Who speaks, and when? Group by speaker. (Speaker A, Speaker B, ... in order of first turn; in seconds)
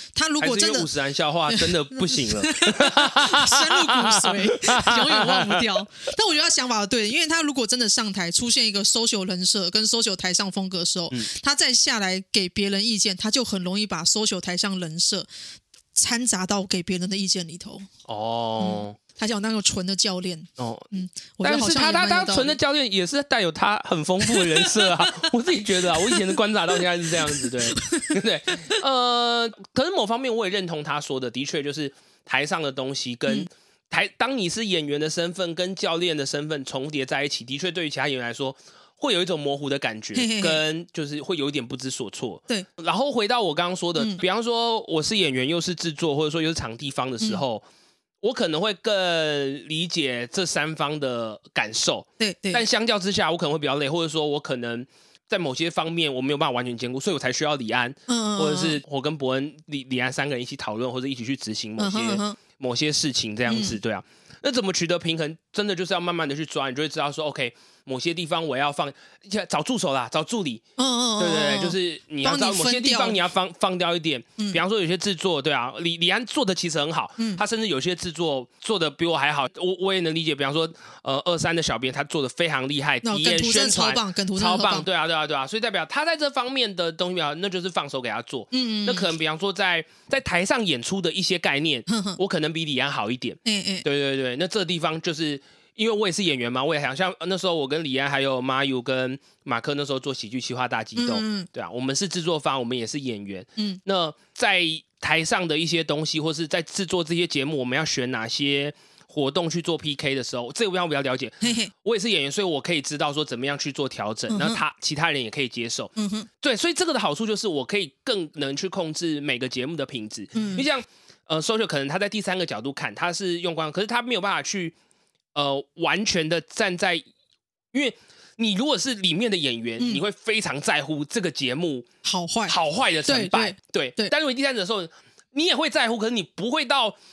Speaker A: 0.1-0.9, 1.5-15.3, 15.9-17.9, 18.6-22.6, 24.2-25.3, 25.8-28.8, 40.1-40.6, 44.0-44.2, 52.2-52.6, 58.1-58.8, 61.8-62.4, 63.5-63.8, 70.8-73.2, 83.0-84.9, 88.5-89.1, 91.9-92.2, 93.5-93.9, 101.0-101.5, 111.4-111.7, 114.3-114.6, 116.0-116.3, 120.3-120.7, 132.0-134.1
Speaker B: 0.4-5.7, 18.1-19.0, 20.6-20.9, 21.4-47.6, 48.2-70.6, 71.2-124.8, 125.3-127.0, 127.7-131.9, 132.5-137.0